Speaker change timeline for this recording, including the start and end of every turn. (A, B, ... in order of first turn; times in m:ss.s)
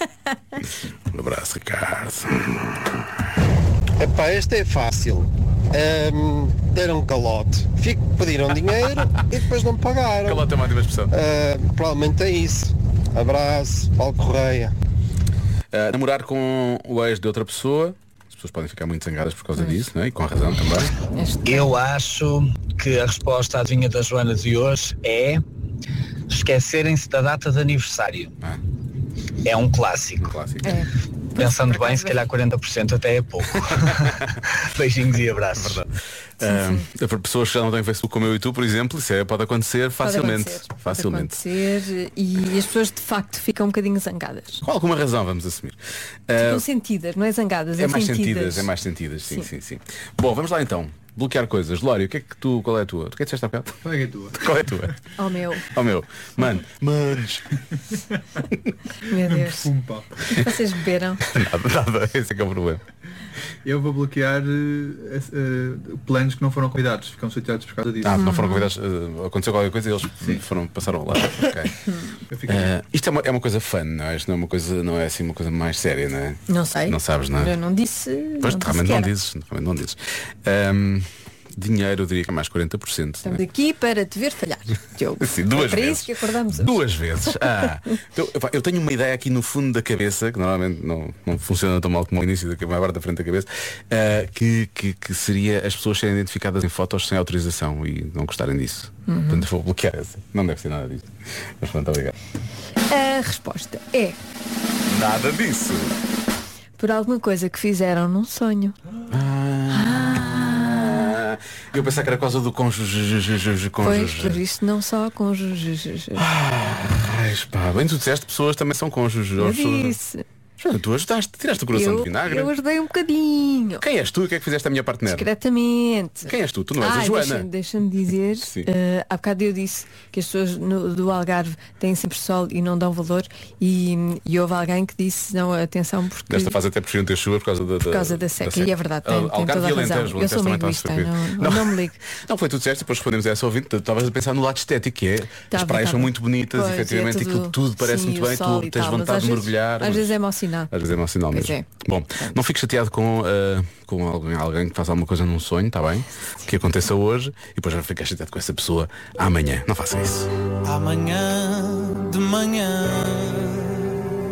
0:01.1-0:03.1 A
0:04.0-0:10.5 B
0:10.2-0:11.1 A
0:11.1-0:14.7 B
0:15.7-0:20.9 A
0:19.6-0:19.8 C
0:21.1-0:21.8 C
0:21.5-0:25.4 D
0:26.3-0:28.3 D
0:29.4-0:30.3 D
0:30.2-0:30.7 A
0:30.6-0:32.2 C
0:31.4-0:35.8 D
0:33.5-0:34.3 A
0:35.6-0:41.4 A
0:36.4-0:36.8 C
0:40.0-0:44.6 C
0:44.6-0:45.8 A
0:46.3-0:46.6 A
0:46.4-0:48.7 C
0:47.8-0:53.8 A
0:53.8-0:54.9 E
0:54.3-0:54.9 A
0:55.2-0:55.7 C
0:55.6-0:57.5 A
0:59.1-0:59.7 C
0:59.1-1:00.2 E
1:00.3-1:01.2 C
1:01.2-1:02.8 A
1:03.6-1:08.3 E
1:08.0-1:11.8 A
1:08.1-1:08.7 C
1:12.3-1:12.7 E
1:12.5-1:17.5 A
1:16.5-1:19.1 C
1:18.4-1:23.4 A
1:23.2-1:26.8 C
1:25.2-1:41.1 A
1:39.1-1:39.5 C
1:41.6-1:42.1 A
1:42.9-1:44.2 C
1:44.9-1:46.0 A
1:46.8-1:48.8 C
1:49.1-1:54.4 A
1:49.7-1:50.9 C
1:53.8-1:56.3 C
1:56.2-2:00.0 A
1:59.4-2:00.2 C
2:00.6-2:02.5 A
2:01.7-2:03.8 C
2:03.8-2:05.3 A
2:05.1-2:16.6 C
2:06.2-2:07.5 A
2:08.4-2:08.7 A
2:16.3-2:30.2 A
2:17.9-2:22.0 C
2:25.5-2:30.7 C
2:30.7-2:40.3 A
2:31.3-2:31.6 C
2:40.6-2:43.9 F